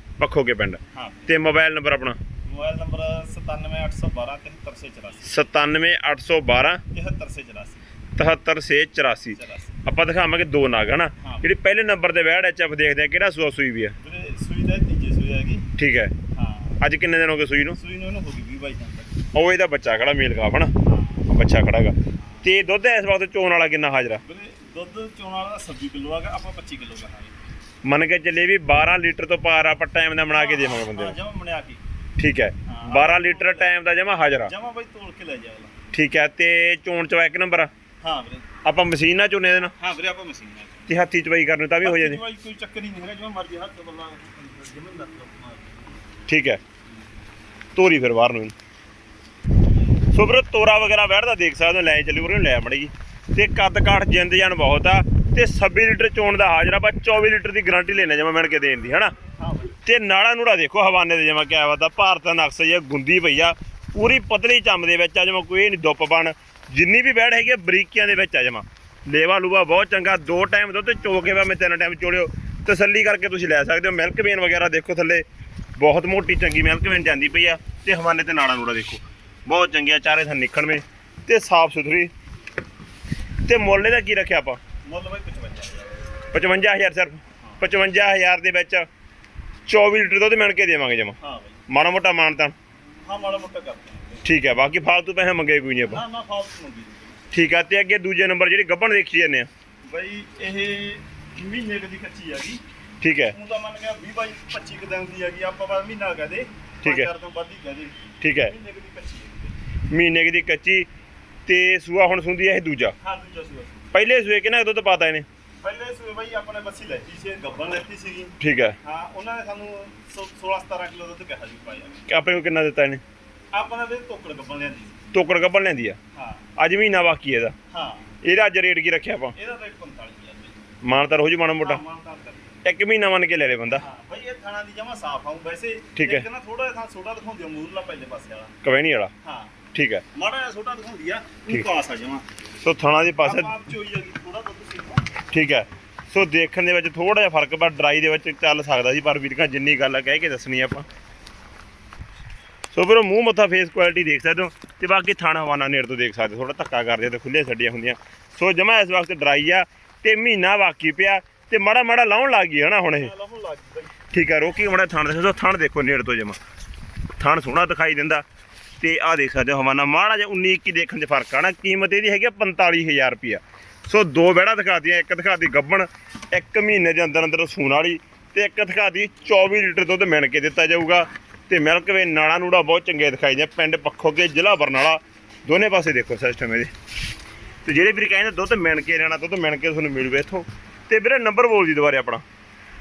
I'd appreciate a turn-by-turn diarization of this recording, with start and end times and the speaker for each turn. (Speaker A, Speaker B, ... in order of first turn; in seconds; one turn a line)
Speaker A: 0.2-2.2
Speaker B: 0.9-1.3
Speaker B: 2.4-5.3
Speaker A: 5.2-6.8
Speaker B: 6.9-7.8
Speaker A: 8.2-13.9
Speaker B: 9.3-9.7
Speaker B: 11.2-11.5
Speaker B: 14.0-15.7
Speaker A: 15.8-16.1
Speaker B: 16.3-16.8
Speaker A: 16.8-17.8
Speaker B: 17.7-19.2
Speaker A: 19.3-20.7
Speaker B: 20.8-21.2
Speaker A: 21.3-24.2
Speaker B: 22.2-22.5
Speaker B: 24.2-27.3
Speaker A: 27.8-31.1
Speaker B: 30.3-31.8
Speaker A: 32.2-34.5
Speaker B: 32.6-33.8
Speaker B: 34.4-35.8
Speaker A: 35.9-37.7
Speaker B: 38.0-38.5
Speaker A: 38.6-39.7
Speaker B: 39.8-40.9
Speaker A: 40.9-42.2
Speaker B: 41.8-46.0
Speaker A: 46.3-46.6
Speaker A: 47.8-48.5
Speaker A: 50.1-59.1
Speaker B: 59.4-59.8
Speaker A: 59.8-75.2
Speaker A: 75.8-82.1
Speaker A: 83.4-84.6
Speaker B: 84.8-86.1
Speaker A: 86.3-88.8
Speaker A: 89.7-91.2
Speaker B: 91.2-91.6
Speaker A: 91.7-92.5
Speaker B: 93.0-94.3
Speaker A: 94.2-96.0
Speaker B: 95.8-97.2
Speaker A: 97.3-99.5
Speaker B: 99.8-102.6
Speaker A: 103.0-103.3
Speaker B: 103.3-109.5
Speaker A: 106.8-107.1
Speaker A: 108.2-108.5
Speaker A: 109.9-110.9
Speaker A: 111.5-113.0
Speaker B: 113.0-113.9
Speaker A: 113.9-115.2
Speaker B: 115.6-122.0
Speaker A: 118.4-118.8
Speaker A: 122.1-123.0
Speaker B: 123.5-125.0
Speaker A: 125.1-126.0
Speaker B: 126.1-126.4
Speaker A: 126.6-127.5
Speaker B: 127.7-128.1
Speaker A: 128.2-129.3
Speaker B: 129.3-130.6
Speaker A: 130.8-131.8
Speaker B: 131.6-132.6
Speaker A: 132.6-133.8
Speaker B: 133.8-138.5
Speaker A: 135.9-136.2
Speaker A: 138.6-139.1
Speaker B: 139.2-139.6
Speaker A: 139.7-140.0
Speaker B: 140.1-142.2
Speaker A: 142.6-143.5
Speaker B: 143.2-145.2
Speaker A: 145.3-150.8
Speaker A: 152.7-163.1
Speaker B: 162.9-164.0
Speaker A: 164.1-166.4
Speaker A: 167.2-168.2
Speaker A: 168.8-186.7
Speaker A: 187.6-192.2